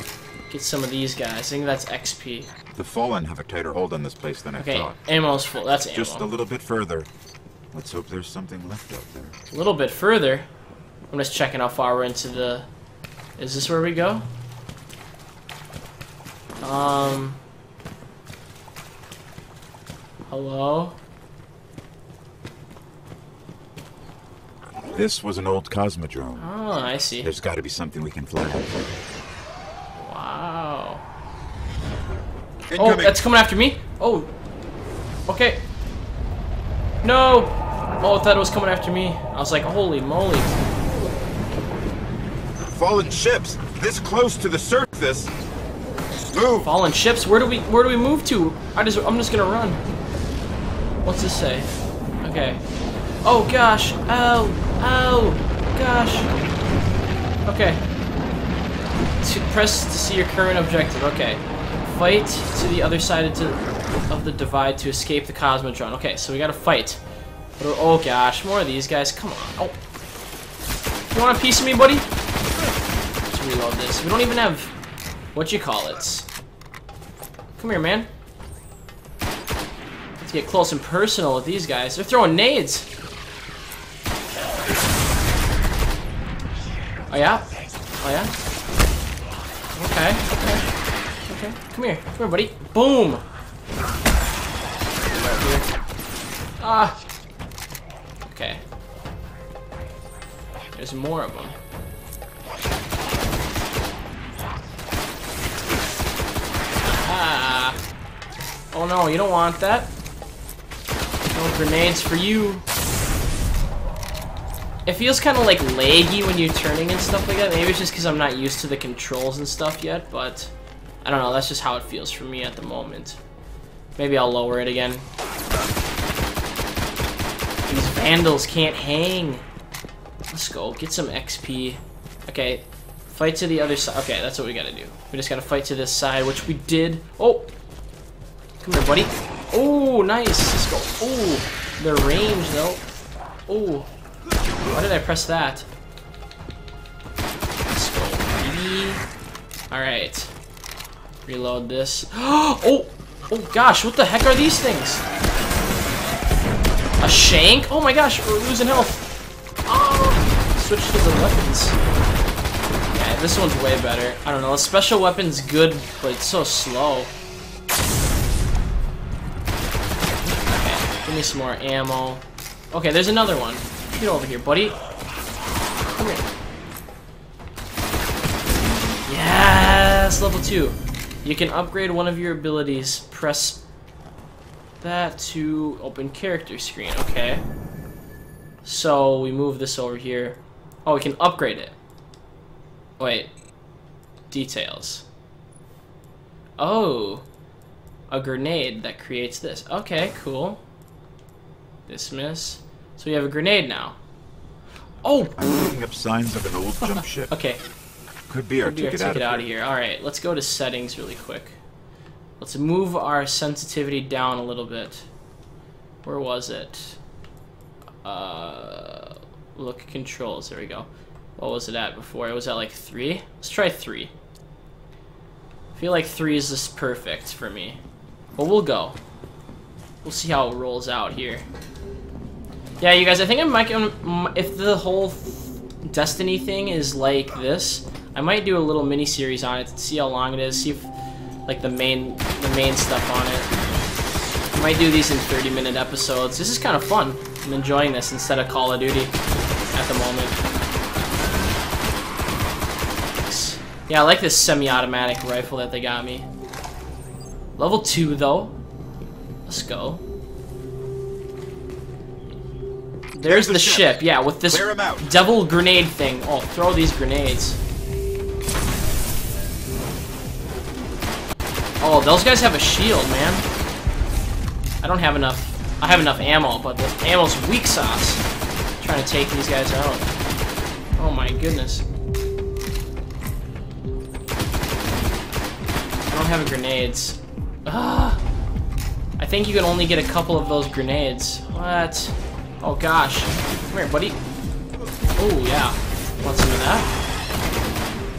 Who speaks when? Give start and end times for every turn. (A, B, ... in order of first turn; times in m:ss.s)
0:00.5-0:02.5 A
0:02.8-0:05.1 B
0:04.6-0:06.3 A
0:05.8-0:07.1 B
0:07.7-0:09.4 B
0:09.5-0:10.5 A
0:11.1-0:12.7 A
0:13.4-0:14.3 A
0:16.6-0:17.4 A
0:20.3-0:21.0 A
0:24.9-0:26.6 B
0:26.4-0:27.3 A
0:27.2-0:28.8 B
0:30.0-0:31.0 A
0:32.7-0:33.2 B
0:32.8-0:34.3 A
0:35.3-0:35.6 A
0:37.0-0:40.6 A
0:42.7-0:45.3 B
0:46.3-0:46.7 B
0:46.6-0:49.8 A
0:51.0-0:51.7 A
0:52.2-0:52.6 A
0:53.2-0:56.3 A
0:57.4-0:57.8 A
0:59.2-1:07.0 A
1:07.6-1:09.8 A
1:11.1-1:12.1 A
1:13.3-1:14.7 A
1:15.3-1:16.3 A
1:17.6-1:18.1 A
1:20.2-1:22.9 A
1:27.1-1:28.3 A
1:29.8-1:30.6 A
1:31.3-1:33.2 A
1:36.6-1:37.0 A
1:38.2-1:38.6 A
1:40.7-1:41.6 A
1:46.8-1:47.8 A
1:48.7-1:49.9 A
1:51.3-1:52.6 A
1:54.9-2:03.2 A
2:04.0-2:05.1 A
2:07.7-2:09.4 A
2:10.3-2:17.5 A
2:18.6-2:22.8 A
2:23.5-2:23.9 A
2:24.7-2:25.7 A
2:27.7-2:29.0 A
2:29.7-2:30.3 A
2:31.3-2:35.0 A
2:37.0-2:39.1 A
2:39.7-2:41.8 A
2:42.9-2:47.1 A
2:50.4-2:54.8 A
2:55.9-2:56.3 A
2:59.1-3:03.6 A
3:04.8-3:07.4 A
3:08.6-3:11.8 A
3:13.0-3:13.3 A
3:14.3-3:15.1 A
3:16.6-3:17.2 A
3:18.1-3:20.6 A
3:21.9-3:24.0 A
3:25.0-3:25.4 A
3:25.4-3:27.3 B
3:26.8-3:27.6 A
3:28.3-3:29.5 B
3:28.6-3:31.6 A
3:32.4-3:35.1 A
3:36.0-3:37.0 A
3:38.0-3:44.1 A
3:45.8-3:47.8 A
3:48.4-3:49.0 A
3:50.0-3:51.4 A
3:52.8-4:00.9 A
4:01.5-4:03.5 A
4:04.5-4:09.2 A
4:09.7-4:10.4 A
4:13.2-4:16.3 A
4:17.6-4:18.6 A
4:19.5-4:20.0 A
4:23.1-4:27.6 A
4:23.2-4:25.1 B
4:31.8-4:33.5 A
4:34.8-4:38.2 A
4:38.8-4:40.1 A
4:41.0-4:41.9 A
4:46.1-4:48.2 A
4:49.2-4:54.2 A
4:55.2-4:56.9 A